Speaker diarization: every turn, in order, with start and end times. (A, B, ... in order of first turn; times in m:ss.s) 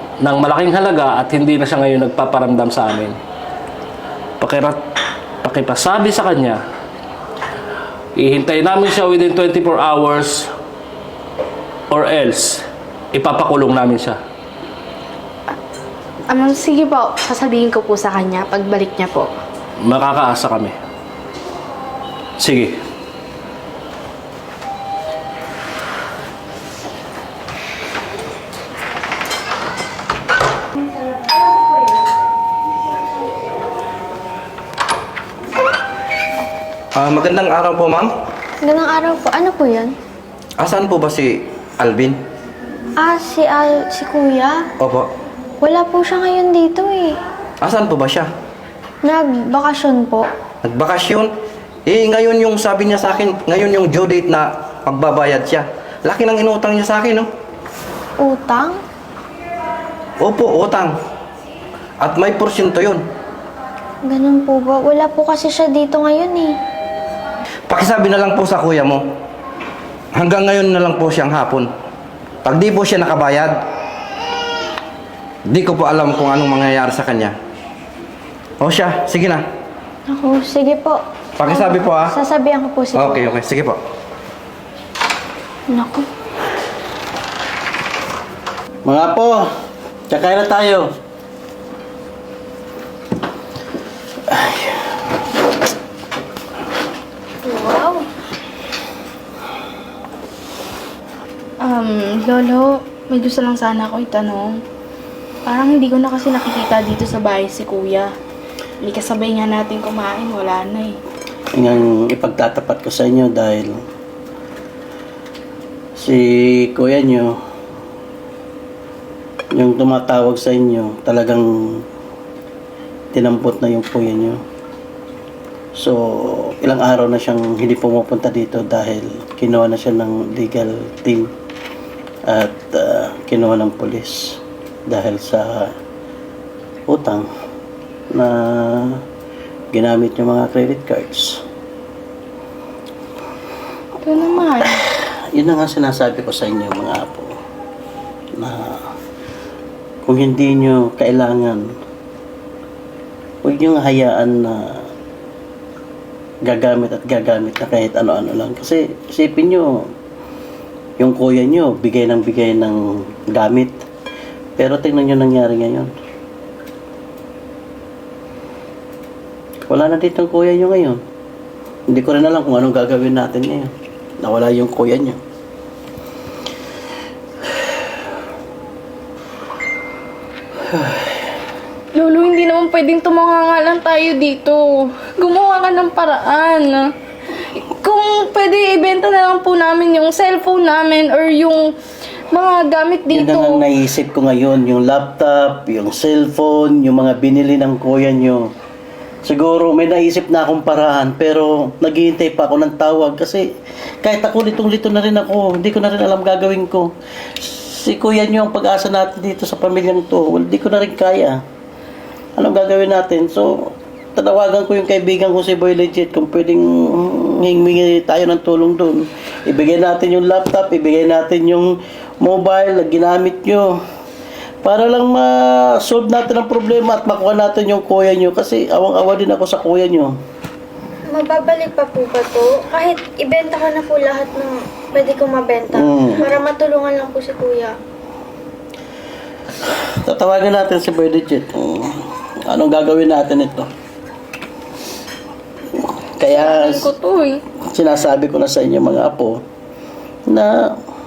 0:00.2-0:03.2 A
0:04.4-0:04.8 A
0:05.4-0:06.6 A
0:08.2-0:10.5 A
0:11.9-0:12.6 A
0:13.1-0:14.2 A
0:16.3-0:19.3 B
0:19.8-0:20.7 A
0:22.4-0:22.7 A
0:36.9-0:38.1 C
0:38.6-0:39.9 D
0:40.6-0:42.2 C
0:43.0-0:44.6 D
0:44.8-0:45.1 C
0:45.6-0:47.2 D
0:47.6-0:48.3 C
0:49.0-0:50.3 D
0:50.6-0:51.3 C
0:51.9-0:57.3 C
0:58.2-0:58.8 D
1:00.2-1:00.9 C
1:02.0-1:03.0 C
1:04.0-1:06.6 D
1:07.7-1:09.0 C
1:10.1-1:11.7 C
1:12.4-1:13.6 C
1:15.5-1:17.4 C
1:18.6-1:19.4 C
1:20.1-1:23.3 D
1:21.4-1:22.2 C
1:22.9-1:23.8 C
1:25.7-1:26.0 D
1:28.8-1:29.4 E
1:30.1-1:30.8 E
1:34.3-1:34.8 E
1:37.4-1:38.0 D
1:41.6-1:44.6 B
1:45.4-1:48.1 B
1:48.8-1:51.0 B
1:51.5-1:53.8 E
1:56.0-1:57.3 E
1:59.5-2:01.8 E
2:03.1-2:04.4 E
2:05.8-2:11.3 E
2:12.3-2:15.7 E
2:16.9-2:17.3 E
2:18.1-2:19.0 E
2:19.7-2:21.4 E
2:24.0-2:24.8 B
2:25.3-2:27.3 E
2:28.4-2:28.8 E
2:30.0-2:31.6 E
2:33.4-2:34.8 E
2:36.4-2:39.7 E
2:41.0-2:42.8 E
2:43.3-2:43.8 E
2:44.6-2:45.9 E
2:49.7-2:51.0 E
2:51.9-2:55.2 E
3:00.7-3:01.0 E
3:01.9-3:06.9 B
3:07.6-3:11.7 B
3:12.3-3:13.6 B
3:13.1-3:18.4 E
3:19.2-3:23.4 E
3:24.0-3:26.9 E
3:27.4-3:31.4 E
3:32.4-3:43.8 E
3:44.6-3:50.1 E
3:51.1-3:57.7 D
3:55.7-3:56.4 E
3:59.6-4:03.7 E
4:05.7-4:06.9 E
4:06.2-4:07.4 B
4:07.7-4:09.4 E
4:10.3-4:10.6 E